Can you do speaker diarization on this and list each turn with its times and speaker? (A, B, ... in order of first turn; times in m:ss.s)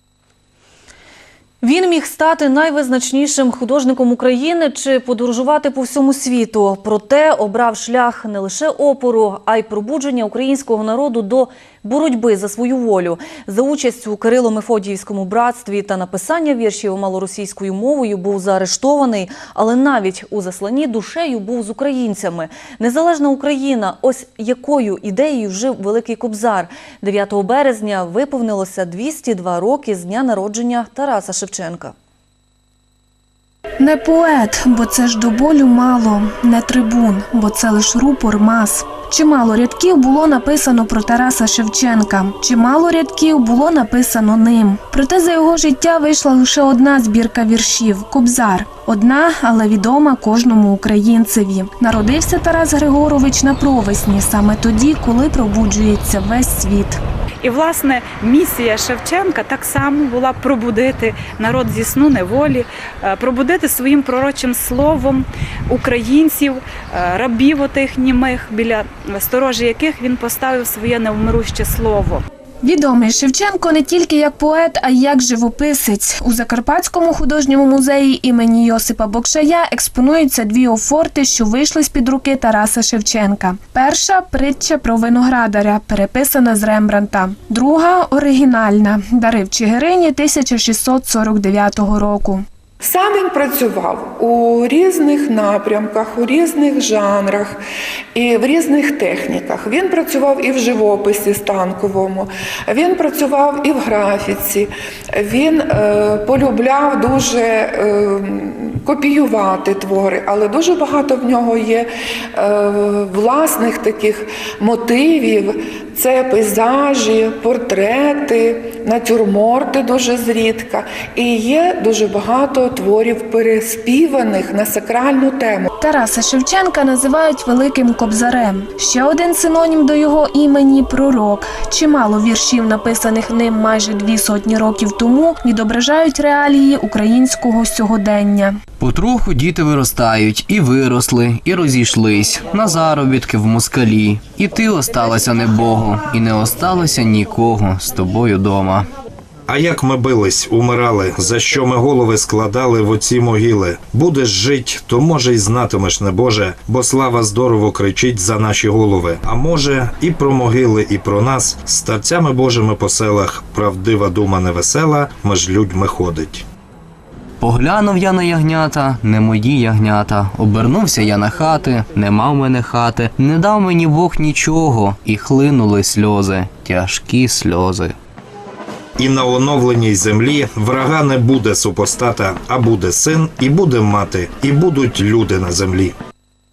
0:01.6-0:31.9 A
0:33.8-0:57.0 B
0:57.4-1:12.2 C
1:12.6-1:32.4 B
1:32.8-1:37.6 D
1:38.2-2:05.7 D
2:05.8-2:18.6 B
2:18.8-2:28.9 E
2:29.5-2:46.4 F
2:47.4-2:57.9 E
2:59.0-3:06.0 F